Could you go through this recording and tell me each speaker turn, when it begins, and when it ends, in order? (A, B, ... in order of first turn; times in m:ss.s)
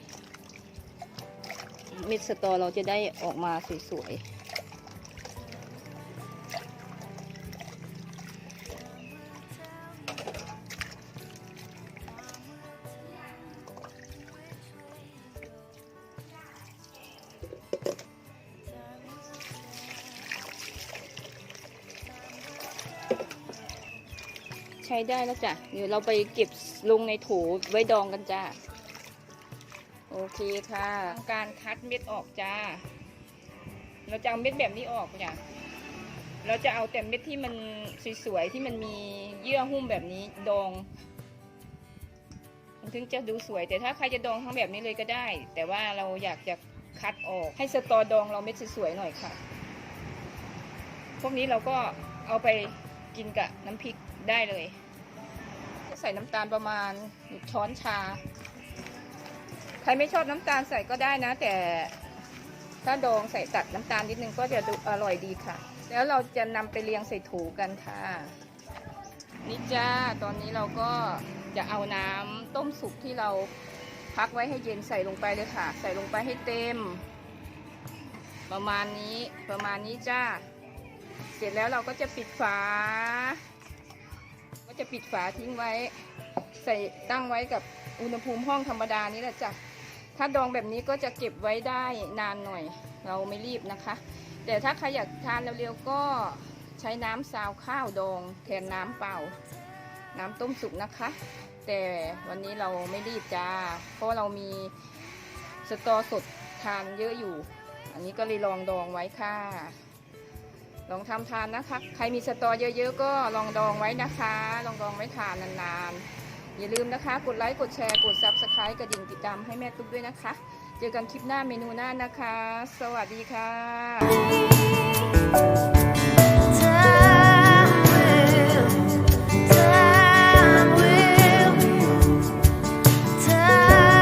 0:01.9-0:04.2 A
0:24.8-0:28.6 A
0:30.1-0:32.8 A
0:34.0-0:35.4 A
0:36.4-0:40.9 A
0:42.8-0:49.4 A
0:51.2-0:54.8 A
0:55.8-0:58.2 A
0:59.8-1:02.0 A
1:02.8-1:08.4 A
1:09.4-1:13.5 A
1:14.1-1:17.0 A
1:18.5-1:20.5 A
1:21.3-1:23.4 A
1:24.6-1:29.6 A
1:30.1-1:39.4 A
1:40.1-1:44.7 A
1:45.6-1:49.8 A
1:50.9-2:04.4 A
2:06.8-2:08.6 A
2:09.8-2:11.7 A